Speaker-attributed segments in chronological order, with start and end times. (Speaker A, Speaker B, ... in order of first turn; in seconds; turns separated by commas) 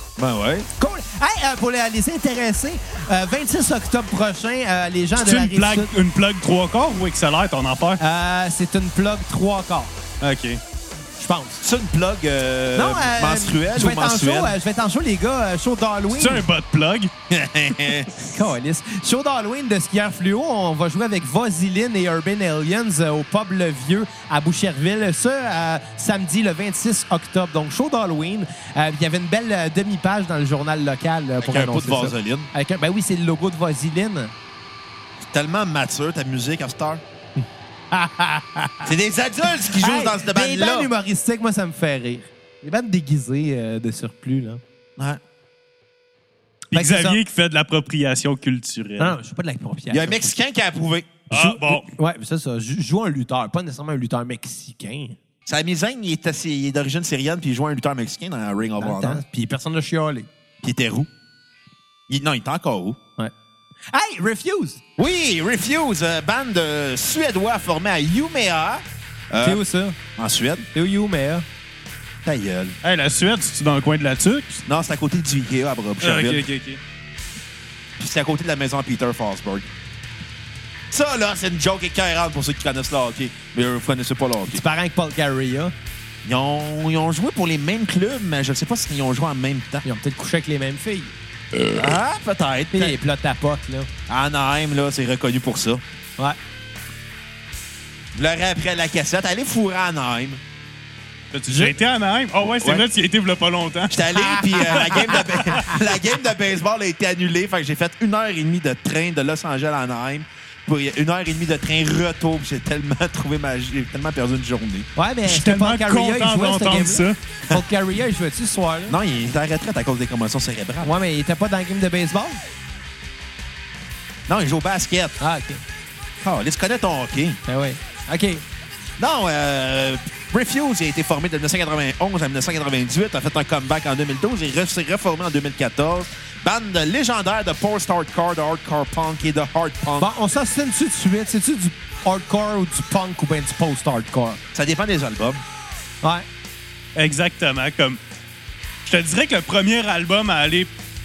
Speaker A: 0.2-0.7, Speaker B: 0.8-5.9, Speaker C: 5.2-8.0, Speaker B: 8.0-9.9, Speaker C: 10.2-10.6, Speaker B: 11.2-11.6, Speaker A: 11.6-14.6, Speaker B: 12.8-16.4, Speaker C: 16.1-17.1, Speaker A: 17.3-18.3, Speaker B: 18.3-34.3, Speaker A: 31.4-32.5, Speaker A: 35.2-37.0, Speaker B: 37.9-38.9, Speaker A: 38.9-40.9, Speaker B: 39.7-44.6, Speaker C: 46.7-49.2, Speaker B: 46.7-47.2, Speaker B: 49.0-50.2, Speaker A: 49.9-51.2, Speaker C: 51.3-51.9, Speaker B: 51.3-55.2, Speaker A: 55.5-59.2, Speaker B: 58.8-60.3, Speaker A: 60.6-61.1, Speaker A: 62.1-63.0, Speaker B: 63.9-64.8, Speaker A: 65.0-69.6, Speaker B: 69.4-70.0, Speaker A: 70.2-70.7, Speaker B: 70.7-71.5, Speaker A: 72.2-72.8, Speaker C: 72.8-74.6, Speaker A: 74.7-76.4, Speaker C: 76.0-76.8, Speaker A: 78.0-79.7, Speaker A: 80.9-84.6, Speaker B: 84.5-85.7, Speaker A: 86.2-89.8, Speaker B: 89.8-91.1, Speaker A: 91.7-93.0, Speaker B: 92.7-93.9, Speaker A: 94.1-95.8, Speaker A: 98.1-100.4, Speaker C: 101.3-104.0, Speaker B: 101.5-101.7, Speaker A: 102.4-102.8, Speaker A: 103.9-114.9, Speaker B: 104.2-105.8, Speaker B: 115.0-119.0, Speaker C: 115.3-117.2, Speaker A: 118.9-120.9, Speaker B: 120.8-122.4, Speaker A: 124.3-125.2, Speaker B: 125.2-125.6, Speaker A: 126.2-127.4, Speaker B: 127.5-128.4, Speaker A: 129.0-140.1, Speaker B: 140.0-144.4, Speaker A: 144.5-145.4, Speaker C: 147.0-148.0, Speaker C: 148.8-150.7